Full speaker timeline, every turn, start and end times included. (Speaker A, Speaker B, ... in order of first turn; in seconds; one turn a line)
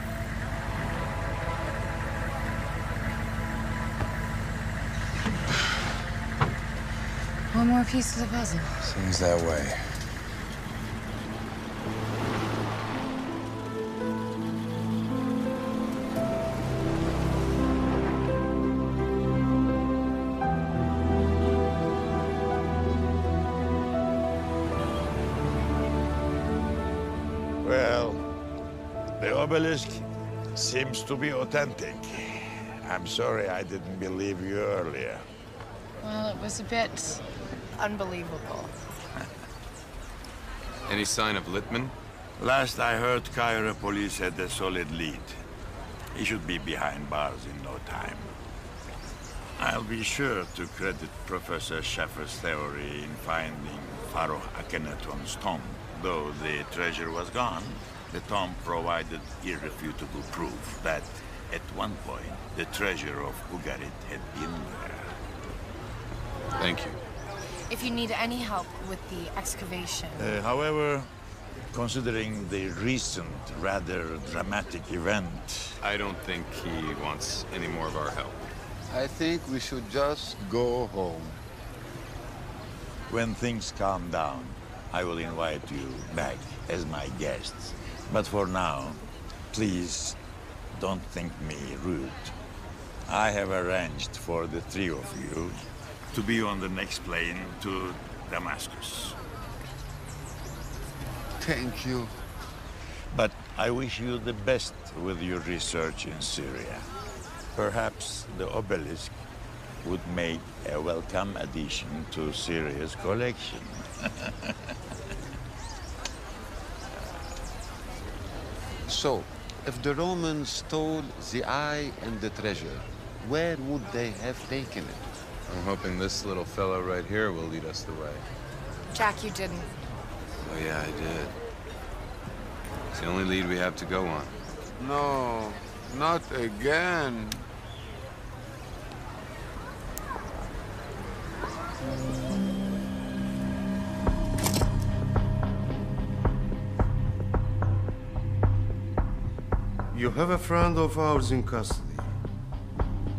Speaker A: 7.5-8.9
Speaker B: 8.9-10.0
Speaker C: 27.6-28.3
Speaker C: 29.2-35.2
Speaker A: 36.0-38.7
Speaker B: 40.9-41.9
Speaker C: 42.4-45.4
Speaker C: 46.1-48.3
Speaker C: 49.6-65.1
Speaker B: 66.6-67.0
Speaker A: 67.7-70.3
Speaker C: 70.2-71.1
Speaker C: 71.7-75.8
Speaker B: 75.8-78.5
Speaker D: 78.9-81.4
Speaker C: 83.1-89.0
Speaker C: 89.5-90.2
Speaker C: 90.8-92.3
Speaker C: 93.1-95.6
Speaker C: 96.1-99.2
Speaker D: 101.4-102.1
Speaker C: 103.1-106.9
Speaker C: 107.5-109.2
Speaker C: 109.8-114.5
Speaker D: 118.9-125.0
Speaker B: 125.5-128.2
Speaker A: 128.9-129.7
Speaker B: 130.4-131.4
Speaker B: 133.0-134.3
Speaker D: 134.8-137.5
Speaker E: 149.9-152.1